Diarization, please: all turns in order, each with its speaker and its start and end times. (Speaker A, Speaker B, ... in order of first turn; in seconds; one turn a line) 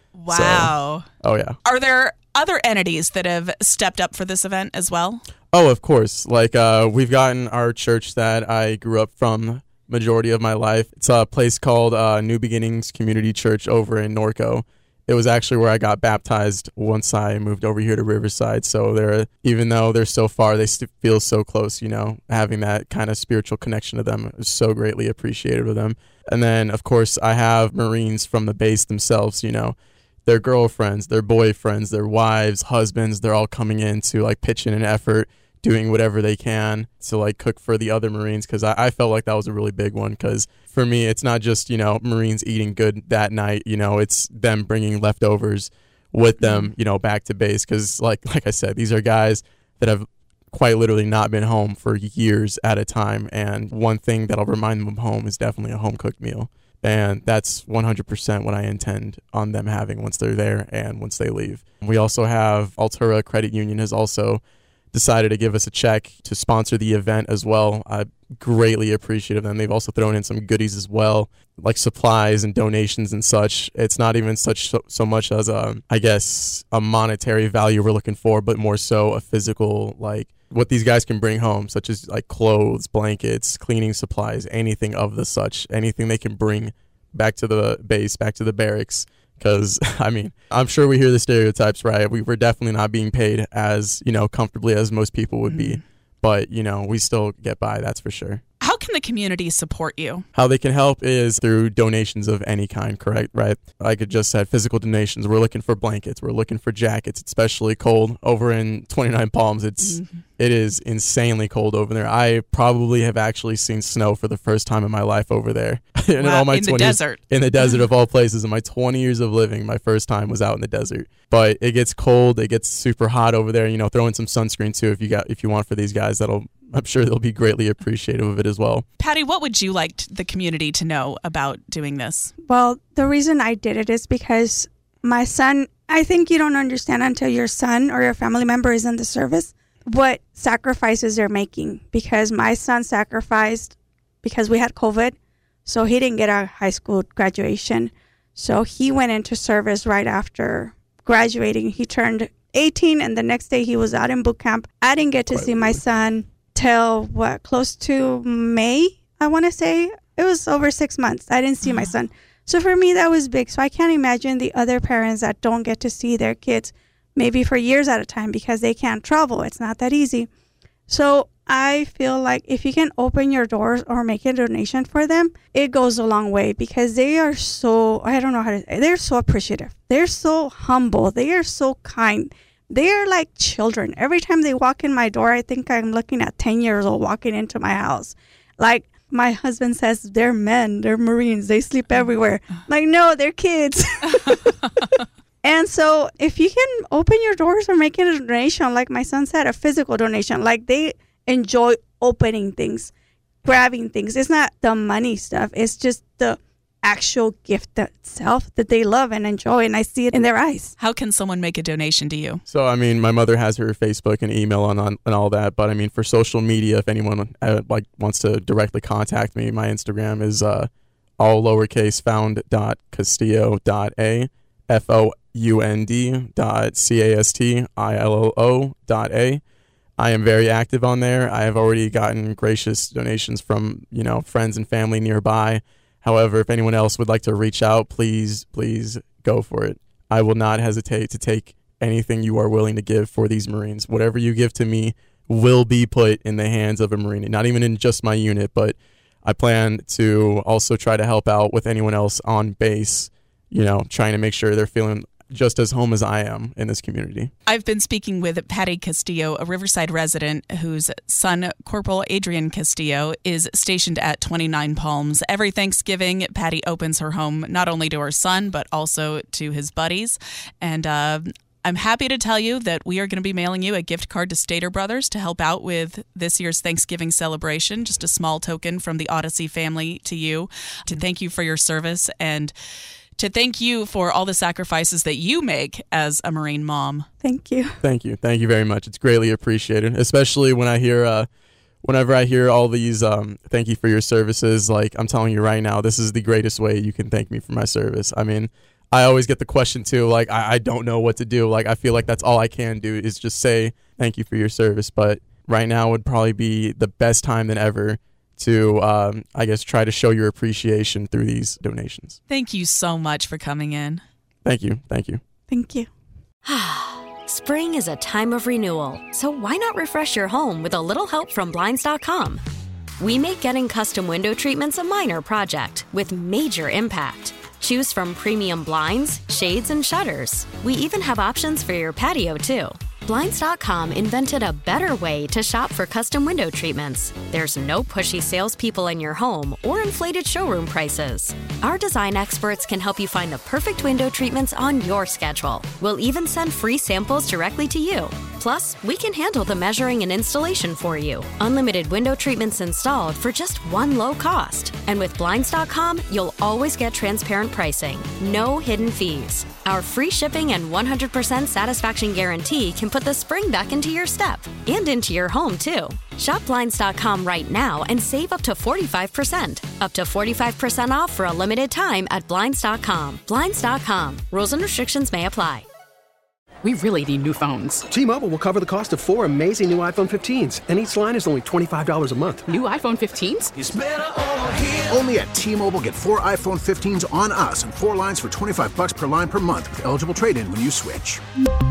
Speaker A: 0.1-1.1
Speaker B: 0.3-1.6
Speaker A: 1.6-5.2
Speaker B: 5.5-64.4
Speaker A: 46.4-46.7
Speaker B: 64.9-98.4
Speaker A: 95.5-95.8
Speaker A: 98.6-100.3
Speaker B: 100.3-128.8
Speaker A: 109.8-110.2
Speaker A: 116.2-117.8
Speaker A: 129.0-132.3
Speaker C: 132.4-145.1
Speaker C: 145.7-170.3
Speaker B: 155.3-155.8
Speaker A: 161.6-161.9
Speaker C: 170.9-194.6
Speaker C: 195.4-202.9
Speaker C: 203.4-210.7
Speaker A: 210.8-212.4
Speaker B: 212.5-229.4
Speaker B: 230.0-257.3
Speaker A: 257.5-282.5
Speaker A: 283.2-287.1
Speaker C: 287.2-287.8
Speaker B: 287.8-291.3
Speaker B: 291.8-312.2
Speaker A: 312.3-314.0
Speaker B: 314.4-315.2
Speaker C: 315.5-315.9
Speaker D: 316.4-322.4
Speaker D: 323.0-375.6
Speaker E: 376.6-377.9
Speaker F: 377.9-382.4
Speaker E: 382.5-383.5
Speaker G: 383.6-391.2